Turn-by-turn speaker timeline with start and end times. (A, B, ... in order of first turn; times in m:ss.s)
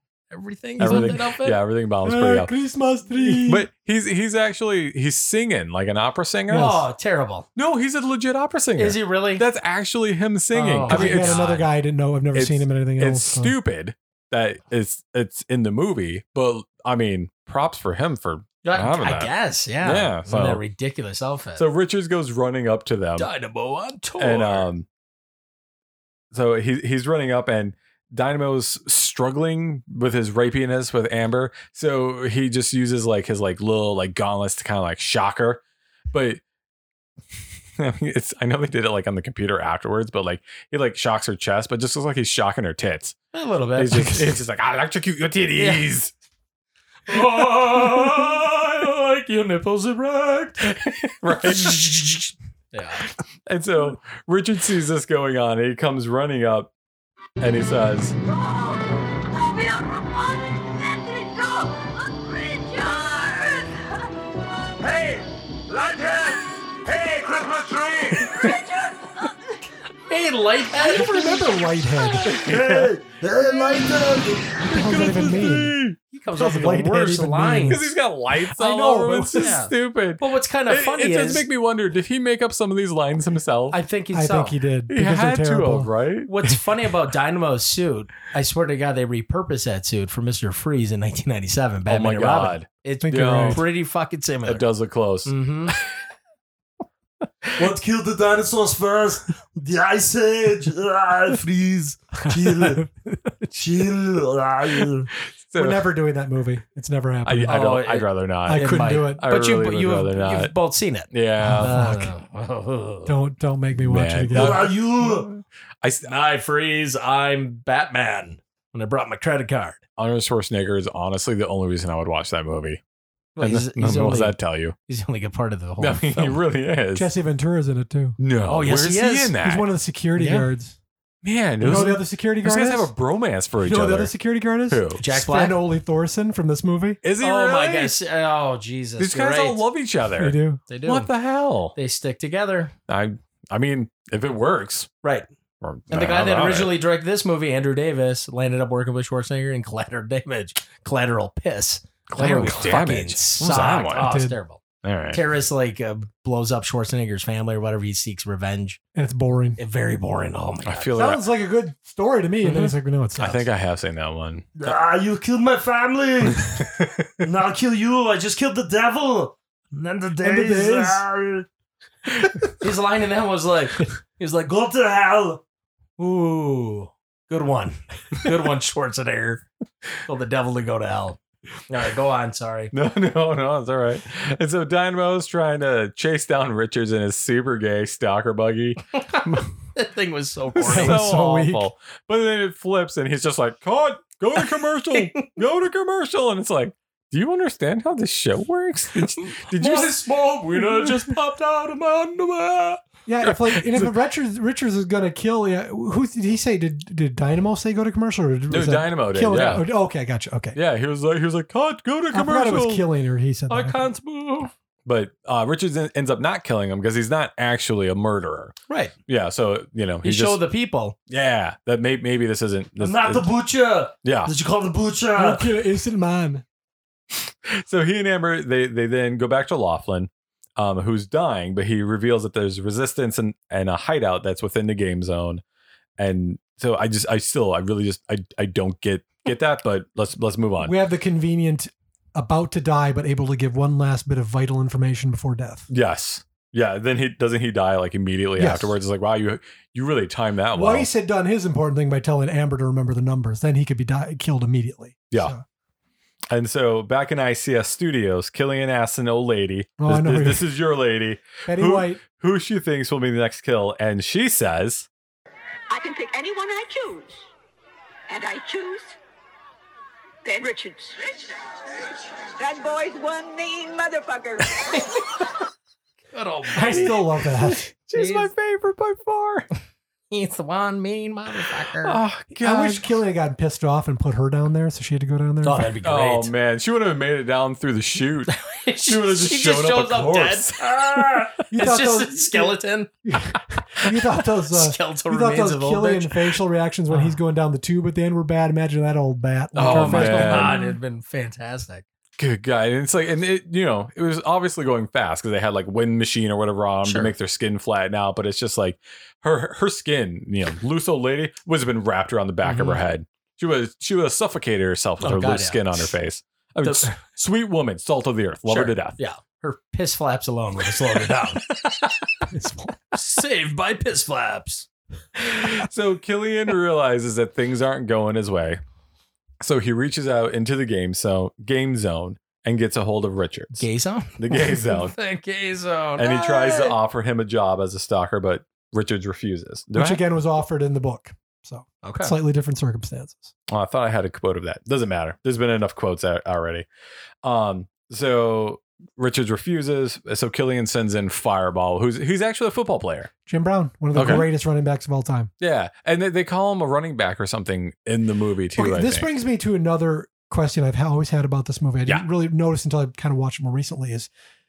0:00.3-0:01.6 A
0:00.8-0:02.5 B
0:00.8-0:01.1 C
0:02.0-0:03.7 C
0:03.2-0:06.8 B
0:06.5-0:07.5 A
0:07.6-0:11.5 B
0:08.8-0:09.4 A
0:10.5-0:11.7 A
0:10.9-0:13.5 C
0:12.3-0:20.6 B
0:18.6-0:21.6 A
0:21.6-0:23.3 B
0:23.2-0:24.7 A
0:24.2-0:24.8 B
0:26.3-0:36.4 B
0:37.8-0:43.2 B
0:43.3-0:44.4 A
0:43.8-0:46.1 B
0:45.6-0:45.8 A
0:47.1-0:50.7 A
0:47.4-0:48.2 B
0:50.6-0:52.3 B
0:51.4-0:52.2 A
0:52.7-0:53.0 A
0:53.4-0:56.7 B
0:57.4-0:58.1 B
0:58.3-1:03.8 D
1:04.8-1:08.0 E
1:08.2-1:08.5 B
1:08.4-1:09.3 D
1:10.1-1:11.4 A
1:10.8-1:12.3 C
1:12.2-1:12.9 B
1:12.3-1:14.6 F
1:14.6-1:16.0 B
1:14.6-1:15.8 C
1:16.1-1:17.8 A
1:16.3-1:17.9 C
1:17.7-1:23.8 B
1:18.5-1:19.6 C
1:19.4-1:21.4 A
1:23.7-1:24.6 A
1:24.1-1:25.9 C
1:24.9-1:26.3 B
1:26.2-1:34.6 A
1:31.9-1:33.7 B
1:33.0-1:33.6 C
1:34.4-1:35.9 B
1:35.2-1:35.8 A
1:37.6-1:42.8 F
1:42.3-1:42.9 C
1:43.5-1:45.1 F
1:45.4-1:45.9 B
1:45.5-1:47.7 C
1:47.2-1:50.5 B
1:47.5-1:53.1 A
1:48.4-1:49.2 C
1:51.1-1:51.8 B
1:51.4-1:52.1 C
1:53.0-1:54.7 C
1:53.8-1:55.3 B
1:54.3-1:55.3 F
1:55.8-1:56.1 B
1:56.0-1:59.8 A
2:00.0-2:02.8 B
2:03.4-2:04.4 A
2:03.4-2:04.7 B
2:04.9-2:06.4 A
2:05.8-2:07.1 B
2:06.9-2:08.2 C
2:08.2-2:09.7 B
2:08.5-2:09.3 A
2:09.4-2:10.8 C
2:10.2-2:10.5 A
2:11.2-2:14.1 B
2:11.6-2:12.9 C
2:13.6-2:17.0 C
2:14.7-2:15.0 B
2:15.0-2:15.6 A
2:17.0-2:17.9 B
2:17.2-2:19.6 A
2:19.0-2:21.8 B
2:20.2-2:20.6 C
2:20.7-2:21.1 A
2:21.7-2:22.7 A
2:22.9-2:24.9 B
2:25.6-2:26.8 B
2:25.9-2:38.8 A
2:32.1-2:34.1 B
2:33.9-2:34.4 C
2:34.8-2:35.2 B
2:38.9-2:39.6 C
2:39.6-2:40.9 A
2:40.6-2:41.2 B
2:40.9-2:43.4 C
2:42.4-2:42.7 A
2:43.2-2:44.6 B
2:44.6-2:46.7 F
2:46.4-2:47.1 B
2:47.2-2:51.5 F
2:50.2-2:51.0 C
2:52.6-2:54.4 A
2:54.4-2:55.4 F
2:56.0-2:59.4 A
3:00.0-3:02.7 A
3:02.7-3:09.5 B
3:09.0-3:11.1 A
3:10.5-3:23.9 B
3:10.7-3:11.7 C
3:14.9-3:15.2 A
3:19.2-3:21.1 A
3:23.0-3:30.6 C
3:28.5-3:29.7 B
3:30.5-3:32.8 B
3:32.1-3:33.8 C
3:33.5-3:34.5 A
3:34.8-3:38.5 B
3:38.7-3:38.9 A
3:39.1-3:40.4 B
3:40.0-3:40.9 A
3:41.1-3:43.3 B
3:42.8-3:45.5 F
3:44.0-3:44.3 B
3:45.1-3:46.4 C
3:47.4-3:55.4 B
3:56.0-4:00.8 B
4:00.6-4:05.7 C
4:05.7-4:10.9 B
4:08.4-4:08.8 C
4:10.5-4:15.4 C
4:16.3-4:24.9 B
4:19.8-4:20.4 C
4:21.4-4:22.0 C
4:25.7-4:27.3 D
4:28.1-4:28.9 D
4:30.2-4:31.2 D
4:32.4-4:34.8 D
4:34.7-4:35.0 A
4:36.1-4:37.0 A
4:36.5-4:37.6 C
4:36.7-4:39.5 B
4:37.9-4:38.3 A
4:40.1-4:42.0 A
4:41.8-4:42.8 B
4:42.4-4:45.7 C
4:45.4-4:46.3 A
4:45.8-4:48.4 B
4:48.3-4:52.9 A
4:48.9-4:51.2 B
4:51.5-5:00.8 C
4:54.5-4:56.2 A
4:56.9-4:57.2 A
4:59.6-5:00.6 B
4:59.6-5:01.8 A
5:02.2-5:19.0 B
5:06.8-5:07.1 A
5:12.4-5:12.8 A
5:15.0-5:15.9 A
5:16.6-5:17.0 A
5:18.5-5:21.6 A
5:22.3-5:24.7 A
5:25.3-5:28.6 B
5:29.4-5:33.6 B
5:33.6-5:36.8 A
5:34.2-5:34.9 B
5:36.0-5:40.0 B
5:39.7-5:43.3 C
5:41.8-5:42.1 A
5:43.5-5:46.7 B
5:47.2-5:53.1 B
5:53.3-5:55.3 C
5:53.9-5:54.3 B
5:55.4-5:59.1 B
5:58.6-6:04.1 C